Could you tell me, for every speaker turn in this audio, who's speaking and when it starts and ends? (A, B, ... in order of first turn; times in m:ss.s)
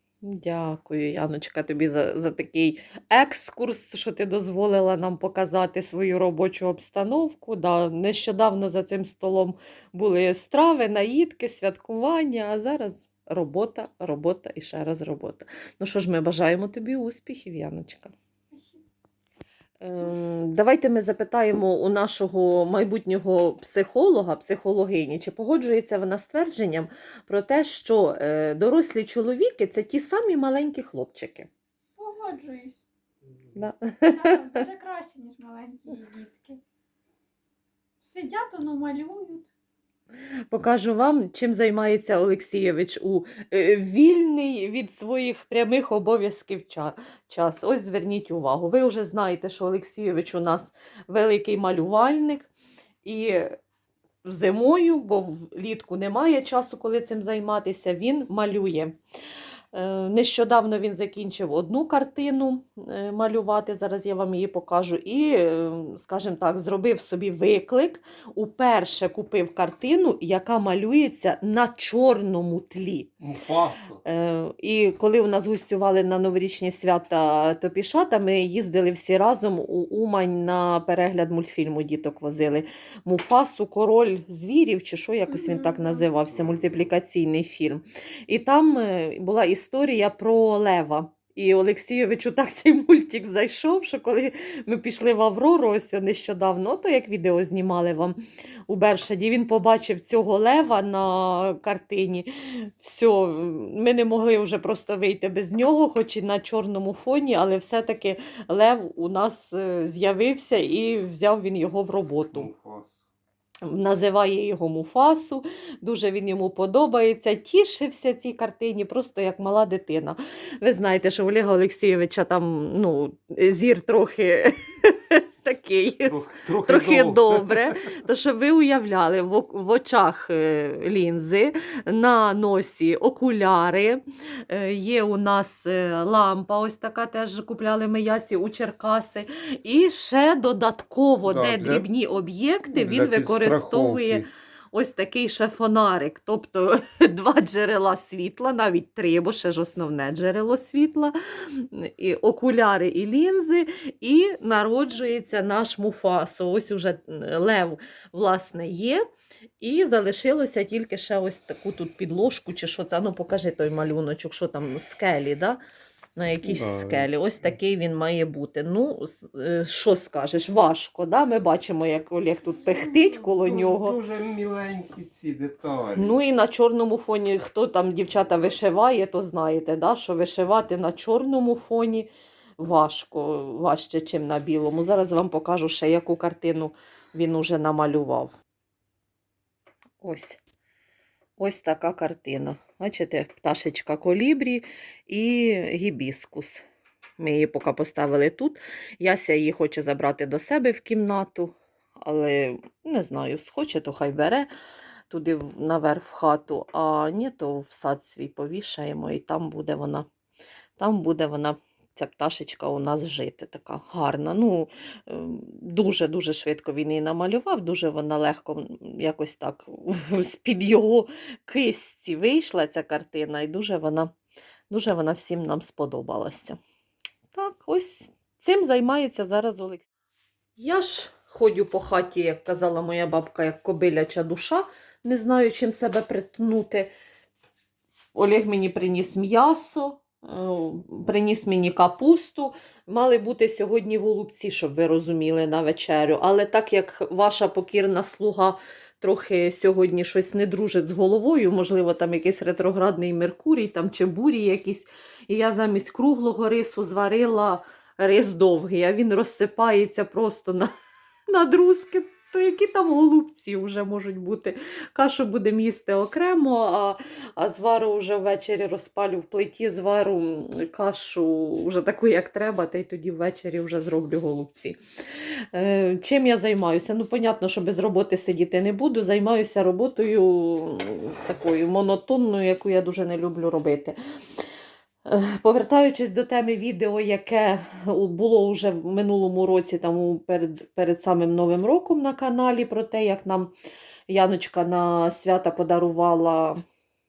0:00.2-0:18.1 A
0:18.5-0:18.8 B
0:19.8-0:31.5 A
0:32.0-0:32.9 B
0:33.6-0:34.6 A
0:34.1-0:36.6 B
0:38.0-0:39.5 B
0:40.5-0:52.5 A
0:53.0-0:53.6 A
0:54.2-0:59.0 A
0:59.7-1:13.1 A
1:13.2-1:14.0 C
1:14.0-1:38.2 A
1:25.3-1:26.0 B
1:38.7-1:52.5 A
1:52.3-1:53.0 C
1:53.7-2:39.0 A
2:06.1-2:07.8 C
2:21.3-2:21.8 C
2:22.8-2:24.3 C
2:39.6-2:45.6 A
2:46.2-2:54.0 A
2:46.5-2:47.1 C
2:53.4-2:56.2 C
2:56.0-3:08.3 A
3:10.0-3:10.4 A
3:11.4-3:16.6 A
3:17.2-3:24.5 A
3:25.1-3:30.0 A
3:30.8-3:44.1 A
3:44.7-3:46.6 A
3:47.3-3:49.9 A
3:50.6-3:56.9 A
3:58.2-4:20.7 A
4:21.3-4:34.8 A
4:35.5-4:44.0 A
4:45.1-4:53.5 A
4:54.1-4:56.6 A